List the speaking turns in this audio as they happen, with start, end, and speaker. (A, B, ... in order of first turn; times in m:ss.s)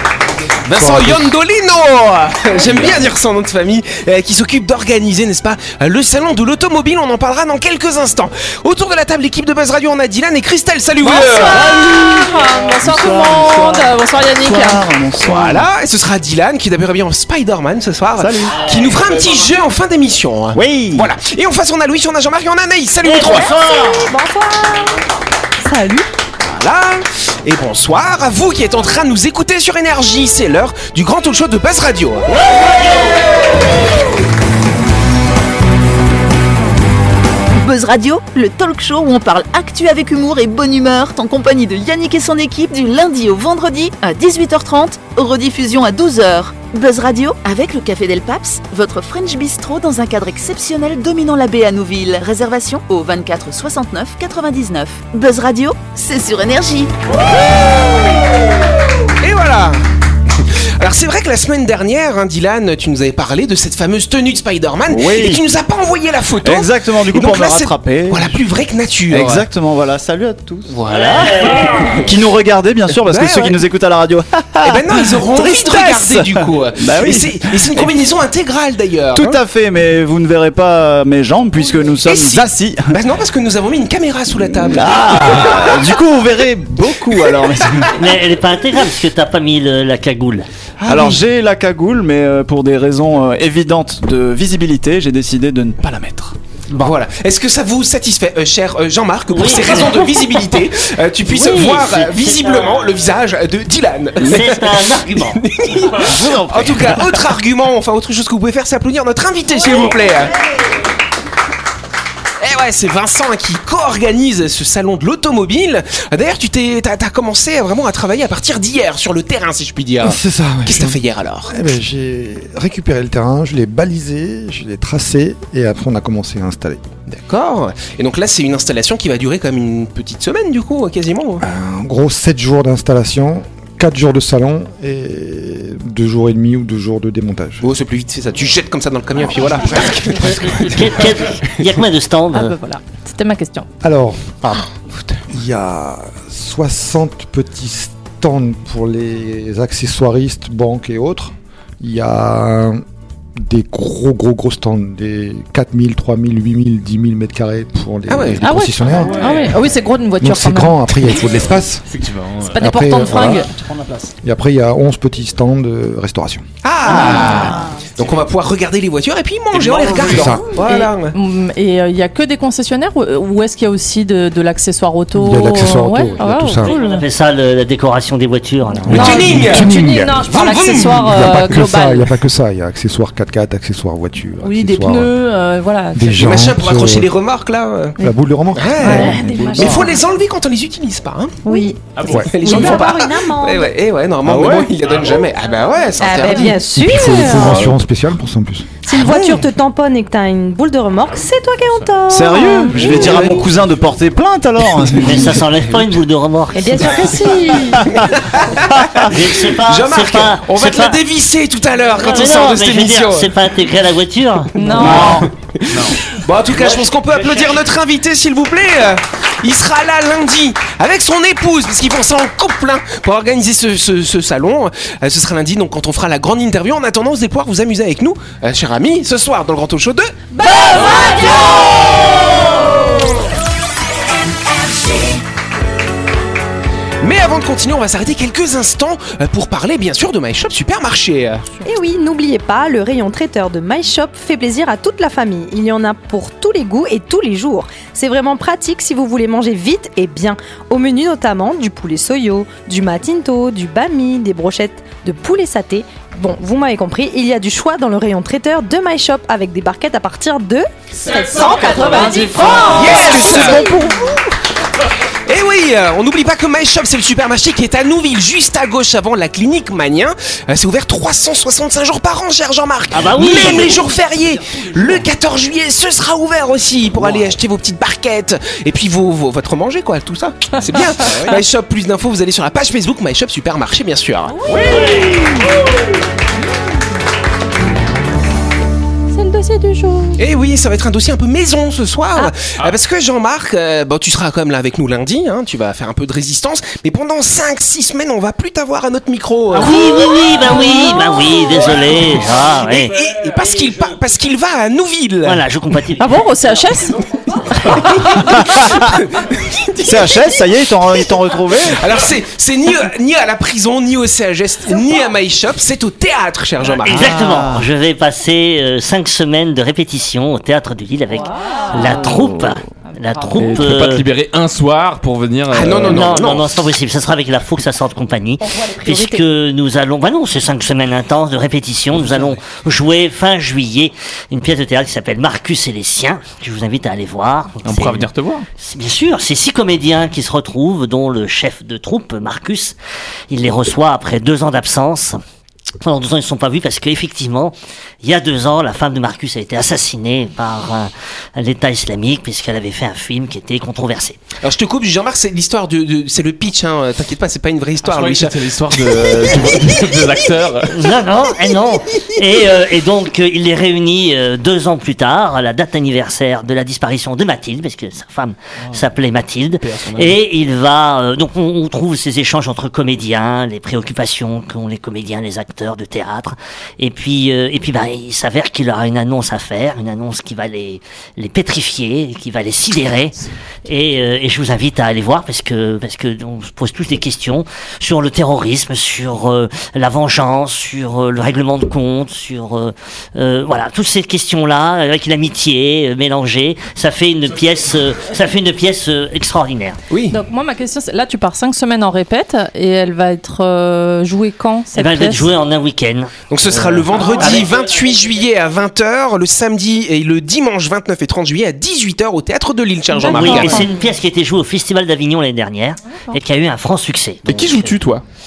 0:00.6-0:11.7 A
0:00.8-0:01.3 B
0:11.0-0:14.8 C
0:11.4-0:15.7 D
0:15.2-0:23.5 A
0:18.2-0:18.7 D
0:20.5-0:21.1 D
0:23.0-0:24.0 E
0:23.2-0:25.0 F
0:25.6-0:26.1 F
0:26.4-0:32.3 A
0:37.5-0:56.9 G
0:59.2-0:59.8 A
1:00.4-1:09.4 A
1:04.9-1:05.4 D
1:06.4-1:08.4 D
1:09.1-1:11.2 D
1:10.7-1:11.6 A
1:10.9-1:11.8 E
1:11.9-1:17.9 D
1:12.9-1:13.6 A
1:14.6-1:19.4 A
1:19.1-1:23.0 D
1:22.0-1:25.7 A
1:24.6-1:27.9 D
1:27.9-1:30.5 E
1:30.8-1:31.2 A
1:30.9-1:35.8 D
1:35.8-1:50.4 A
1:39.3-1:40.1 E
1:41.3-1:41.8 C
1:41.6-1:42.8 E
1:44.2-1:45.4 E
1:46.0-1:47.2 D
1:52.4-2:01.6 A
2:00.0-2:01.0 B
2:01.5-2:06.8 B
2:07.1-2:11.4 A
2:11.4-2:17.6 B
2:17.6-2:21.6 A
2:20.5-2:22.6 E
2:22.3-2:23.7 C
2:23.8-2:24.7 B
2:25.3-2:32.8 B
2:33.4-2:39.5 B
2:38.1-2:38.5 A
2:38.4-2:41.1 C
2:38.9-2:39.8 H
2:40.2-2:41.8 B
2:41.1-2:44.1 H
2:42.5-2:43.5 C
2:42.6-2:43.4 B
2:44.2-2:46.4 B
2:46.6-2:51.2 A
2:46.9-2:47.7 D
2:49.5-2:50.4 H
2:50.1-2:50.5 B
2:50.5-2:57.0 C
2:55.1-2:56.7 B
2:56.6-2:59.3 E
2:58.7-3:05.1 B
2:58.8-3:02.1 C
2:58.9-3:01.1 A
3:04.4-3:06.5 C
3:05.9-3:07.1 B
3:06.2-3:08.0 A
3:08.0-3:09.1 B
3:08.5-3:16.6 A
3:08.8-3:10.0 F
3:08.8-3:09.9 D
3:11.4-3:13.7 F
3:11.9-3:12.8 H
3:12.0-3:12.3 B
3:14.2-3:14.7 D
3:14.8-3:15.2 H
3:16.0-3:17.8 F
3:16.8-3:18.7 B
3:17.2-3:17.4 D
3:18.8-3:23.5 F
3:19.0-3:19.4 D
3:21.1-3:22.1 H
3:22.1-3:25.5 D
3:25.0-3:27.1 E
3:26.5-3:27.9 F
3:27.9-3:33.3 A
3:28.7-3:29.0 D
3:29.0-3:31.0 E
3:32.0-3:34.6 E
3:34.6-3:35.2 C
3:34.6-3:50.1 A
3:34.7-3:35.3 D
3:35.7-3:36.0 H
3:36.5-3:37.6 E
3:50.4-3:51.9 F
3:57.0-4:01.4 A
4:01.6-4:24.2 F
4:20.9-4:23.0 H
4:21.1-4:23.4 C
4:22.4-4:24.0 D
4:22.7-4:23.8 A
4:25.3-4:44.4 A
4:32.9-4:33.9 E
4:33.2-4:34.9 D
4:44.4-4:45.1 C
4:44.5-4:45.2 D
4:49.1-4:50.2 C
4:50.2-4:59.8 A
4:59.5-5:03.0 E
4:59.6-5:01.7 C
5:02.0-5:04.0 H
5:02.8-5:05.4 A
5:05.2-5:06.5 E
5:06.0-5:07.0 C
5:07.6-5:08.3 C
5:07.7-5:10.4 A
5:08.2-5:09.0 D
5:09.8-5:11.9 D
5:11.6-5:17.2 A
5:16.8-5:24.1 E
5:17.0-5:17.7 D
5:21.2-5:22.1 C
5:22.1-5:22.6 D
5:23.4-5:26.1 H
5:25.5-5:26.5 A
5:25.8-5:42.8 E
5:28.4-5:29.2 F
5:32.0-5:32.3 H
5:37.6-5:38.4 H
5:43.3-5:45.2 E
5:45.8-5:54.2 E
5:54.4-5:59.0 A
5:57.8-6:01.0 H
5:59.3-5:59.8 E
6:00.7-6:23.1 E
6:09.6-6:10.2 H
6:23.6-6:39.8 E
6:37.3-6:37.9 H
6:39.9-6:40.2 A
6:40.1-6:45.3 C
6:44.7-6:46.1 E
6:46.3-6:53.7 A
6:46.8-6:47.5 E
6:53.0-6:53.7 F
6:53.0-6:57.8 E
6:53.0-6:53.7 C
6:57.2-6:58.0 H